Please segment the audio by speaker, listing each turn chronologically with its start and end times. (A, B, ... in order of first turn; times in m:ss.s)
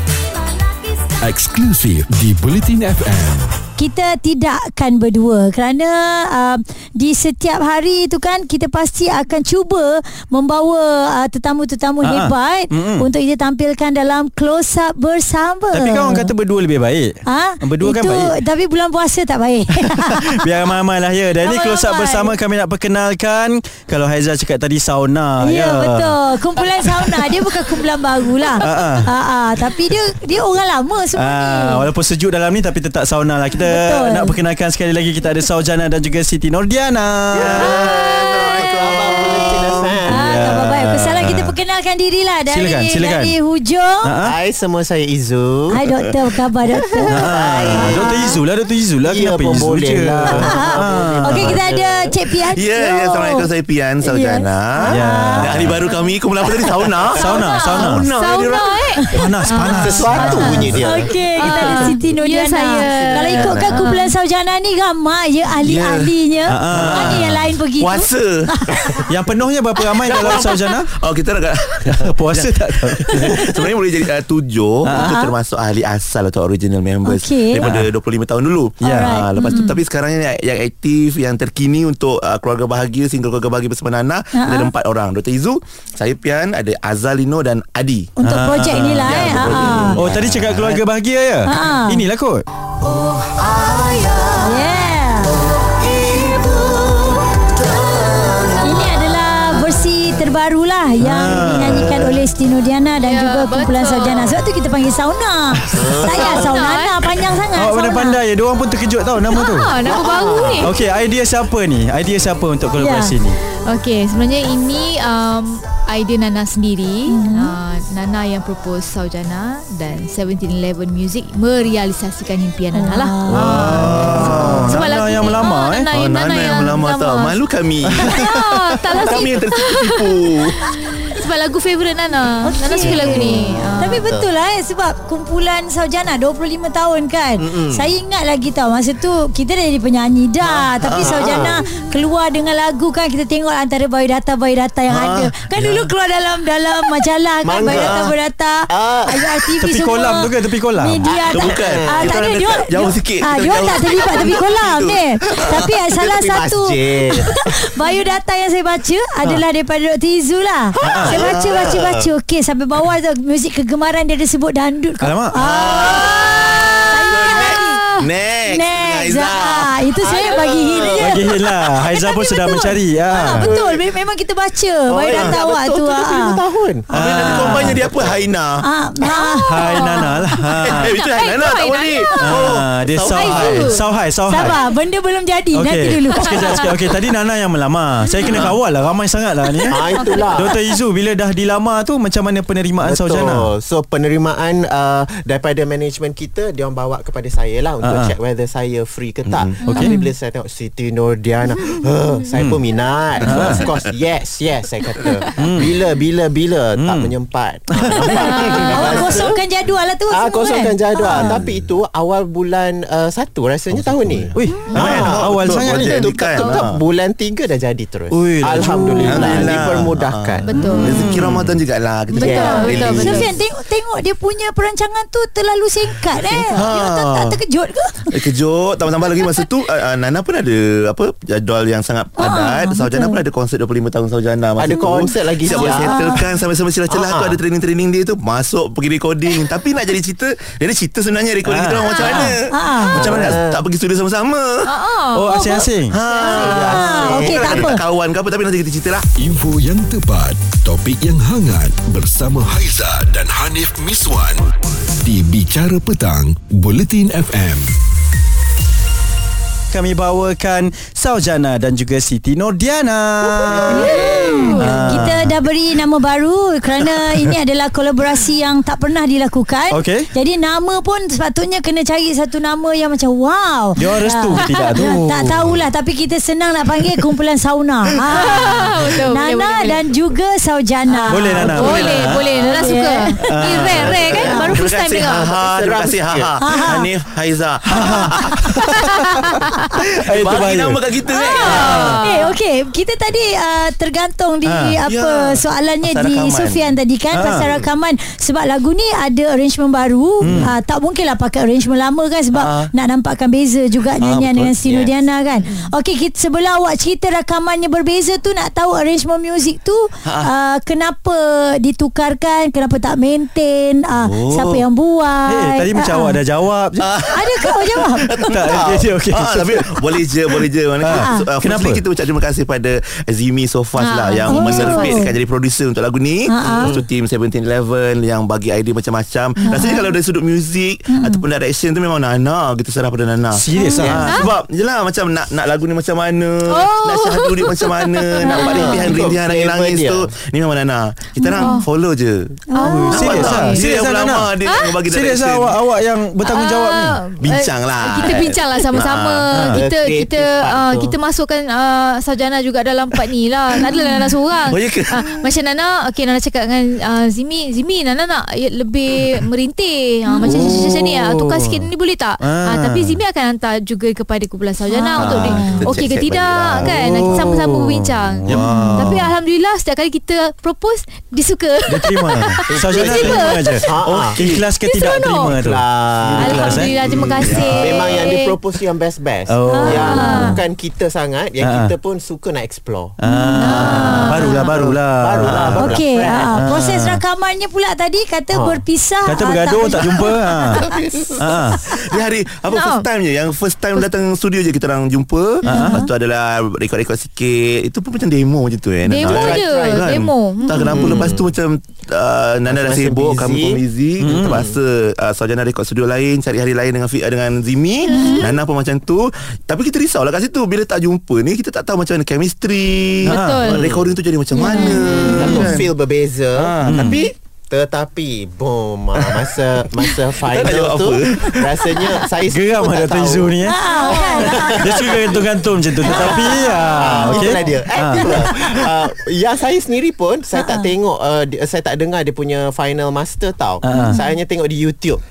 0:01.2-0:03.5 A
0:03.8-0:16.3 B
0:12.0-0:13.1 C
0:15.7-0:18.4 C
0:17.3-0:20.4 B
0:19.8-0:26.2 C
0:21.4-0:22.3 B
0:25.4-0:31.9 B
0:26.9-0:27.3 C
0:28.6-0:29.1 C
0:31.2-0:37.9 C
0:33.6-0:34.3 B
0:37.3-0:40.1 D
0:37.4-0:40.0 E
0:38.4-0:44.1 B
0:40.1-0:41.6 C
0:42.5-0:43.4 C
0:44.0-0:44.3 C
0:44.2-0:45.8 D
0:45.7-0:48.4 B
0:47.0-0:48.3 D
0:47.1-0:51.6 C
0:49.0-0:52.2 D
0:50.4-0:53.5 B
0:52.5-0:59.0 E
0:54.0-0:55.5 B
0:54.9-0:55.8 C
0:55.8-0:56.1 F
0:57.2-0:58.0 C
0:57.2-1:00.4 F
0:59.1-1:00.8 C
0:59.6-1:02.1 D
1:00.0-1:00.5 E
1:00.4-1:09.1 B
1:01.4-1:04.1 F
1:02.7-1:03.6 D
1:03.4-1:03.8 E
1:05.6-1:06.1 E
1:06.5-1:07.4 C
1:06.7-1:09.1 E
1:09.0-1:10.9 C
1:10.0-1:28.2 E
1:11.8-1:13.7 C
1:14.8-1:15.2 C
1:14.9-1:15.3 B
1:17.0-1:17.7 B
1:17.6-1:17.9 C
1:18.8-1:19.8 B
1:18.8-1:19.2 C
1:24.3-1:24.7 B
1:28.2-1:30.0 B
1:28.2-1:32.4 C
1:28.9-1:30.8 E
1:31.5-1:32.0 B
1:32.8-1:34.6 D
1:34.4-1:35.5 B
1:35.5-1:38.9 D
1:38.6-1:48.2 B
1:41.0-1:42.0 C
1:43.0-1:44.4 F
1:45.7-1:46.6 D
1:46.1-1:47.0 F
1:47.5-1:49.7 C
1:49.3-1:50.8 F
1:49.8-1:50.7 D
1:50.6-1:53.4 C
1:52.8-1:53.1 B
1:53.6-2:07.4 F
1:57.1-1:57.6 B
2:02.7-2:03.8 B
2:03.3-2:10.8 E
2:03.3-2:05.9 C
2:07.8-2:08.5 C
2:08.0-2:14.1 F
2:09.0-2:09.2 B
2:12.4-2:47.8 B
2:12.8-2:14.3 D
2:17.4-2:17.9 D
2:20.5-2:21.5 E
2:20.9-2:21.6 D
2:24.9-2:25.9 E
2:27.4-2:28.1 D
2:27.7-2:28.1 E
2:28.7-2:29.5 D
2:29.6-2:31.1 C
2:31.0-2:32.2 D
2:31.3-2:35.7 E
2:35.7-2:37.5 D
2:40.8-2:42.1 D
2:40.8-2:41.2 C
2:40.9-2:41.8 E
2:45.0-2:45.5 C
2:45.4-2:50.4 E
2:47.1-2:48.0 F
2:48.5-2:56.4 B
2:50.1-2:51.4 D
2:51.0-2:53.5 C
2:53.3-2:53.8 D
2:54.9-2:56.9 D
2:56.9-2:57.8 C
2:56.9-2:58.6 E
2:57.2-2:57.6 B
2:57.8-2:58.2 D
2:58.6-3:00.1 B
2:59.2-3:02.5 F
2:59.5-3:00.9 C
3:00.6-3:03.8 E
3:02.2-3:04.6 C
3:03.1-3:03.8 F
3:04.3-3:06.7 B
3:04.4-3:04.8 F
3:05.5-3:13.5 C
3:06.3-3:06.7 F
3:08.2-3:08.6 E
3:09.7-3:10.6 D
3:09.9-3:10.6 F
3:12.8-3:29.4 D
3:17.8-3:18.1 C
3:19.3-3:19.6 E
3:19.6-3:20.1 B
3:22.3-3:22.6 C
3:23.2-3:23.8 E
3:23.2-3:23.7 C
3:25.4-3:25.7 C
3:26.8-3:27.1 C
3:27.7-3:28.0 C
3:28.0-3:31.4 B
3:28.0-3:29.3 E
3:30.1-3:40.8 D
3:31.2-3:31.6 E
3:33.7-3:36.8 E
3:34.3-3:36.0 C
3:34.7-3:35.0 F
3:38.1-3:39.7 C
3:39.1-3:43.3 E
3:40.4-3:41.1 F
3:40.6-3:41.6 C
3:42.1-3:43.2 F
3:42.2-3:43.4 D
3:42.2-3:48.3 B
3:46.2-3:47.4 E
3:48.1-4:04.7 E
3:52.2-3:53.2 B
3:54.6-3:56.2 D
3:55.5-3:56.2 B
3:56.9-3:57.4 D
4:01.4-4:02.4 C
4:01.9-4:02.2 F
4:02.5-4:03.1 B
4:02.9-4:03.7 D
4:04.6-4:05.4 F
4:05.1-4:06.0 C
4:05.3-4:05.7 B
4:05.9-4:09.1 E
4:06.0-4:06.8 F
4:06.2-4:07.8 D
4:06.6-4:07.8 B
4:09.2-4:17.8 A
4:19.7-4:25.4 C
4:23.5-4:24.9 F
4:23.5-4:43.4 B
4:29.7-4:30.1 C
4:33.8-4:35.6 C
4:38.1-4:39.8 F
4:41.1-4:45.3 F
4:41.1-4:42.3 C
4:43.2-4:43.9 C
4:43.6-4:48.8 E
4:44.1-4:46.4 D
4:46.4-4:46.9 B
4:47.7-4:49.3 C
4:48.9-4:49.7 F
4:49.8-4:52.1 E
4:49.9-4:50.8 C
4:51.1-5:16.2 B
4:51.1-4:52.3 F
4:54.4-4:54.8 C
4:54.8-4:56.7 E
4:57.1-4:57.5 C
5:00.2-5:00.5 C
5:02.3-5:02.7 E
5:04.0-5:04.6 E
5:10.0-5:10.3 E
5:14.0-5:14.6 E
5:15.3-5:16.9 C
5:16.8-5:45.6 E
5:17.1-5:18.3 B
5:18.3-5:19.9 C
5:20.8-5:21.8 C
5:20.8-5:21.2 B
5:23.8-5:25.0 F
5:24.3-5:25.1 B
5:26.3-5:26.8 B
5:26.5-5:26.9 D
5:29.4-5:29.8 B
5:29.5-5:29.9 F
5:30.9-5:31.2 B
5:33.3-5:34.2 C
5:33.5-5:34.2 B
5:34.0-5:34.3 F
5:36.5-5:39.0 F
5:38.3-5:38.9 B
5:38.3-5:40.1 D
5:41.2-5:41.6 B
5:41.4-5:41.7 F
5:42.5-5:43.2 B
5:42.5-5:43.6 F
5:42.6-5:44.3 C
5:44.4-5:44.8 F
5:44.8-5:47.1 C
5:46.2-6:13.6 F
5:47.2-5:49.3 E
5:49.3-5:49.6 C
5:49.5-5:51.0 D
5:54.4-5:55.0 E
6:00.1-6:00.6 B
6:00.2-6:01.6 C
6:02.2-6:03.0 C
6:04.7-6:05.6 B
6:05.0-6:07.3 E
6:06.6-6:09.1 C
6:08.3-6:08.9 B
6:11.7-6:16.8 C
6:12.5-6:14.2 D
6:12.7-6:13.1 E
6:13.8-6:14.5 E
6:14.6-6:15.3 F
6:15.2-6:22.9 D
6:16.1-6:18.1 E
6:16.2-6:18.3 F
6:19.3-6:20.3 C
6:19.5-6:20.4 B
6:19.7-6:20.4 F
6:21.4-6:21.7 C
6:23.0-6:25.7 C
6:23.0-6:24.2 B
6:23.4-6:24.4 F
6:24.1-6:26.4 D
6:25.2-6:25.7 E
6:25.6-6:30.4 B
6:26.3-6:27.0 C
6:28.3-6:28.6 D
6:29.0-6:30.6 C
6:30.5-6:55.7 E
6:31.2-6:31.7 C
6:32.5-6:32.9 F
6:35.4-6:35.8 F
6:35.4-6:35.9 C
6:35.5-6:35.9 B
6:38.8-6:41.1 F
6:39.0-6:40.0 D
6:40.6-6:41.3 D
6:42.5-6:43.6 D
6:44.0-6:44.5 C
6:44.2-6:44.6 D
6:47.9-6:48.4 F
6:47.9-6:48.3 B
6:53.1-6:53.6 F
6:53.1-6:53.5 C
6:53.5-6:54.0 D
6:54.3-6:55.5 B
6:54.4-6:55.4 F
6:54.8-7:15.0 D
6:56.3-6:57.1 E
6:56.6-6:57.0 C
6:59.0-6:59.3 E
6:59.8-7:02.1 E
7:02.2-7:03.7 C
7:03.4-7:04.8 B
7:04.4-7:08.2 C
7:06.1-7:07.5 B
7:08.0-7:08.6 E
7:10.3-7:10.7 B
7:13.6-7:14.0 C
7:13.7-7:14.0 B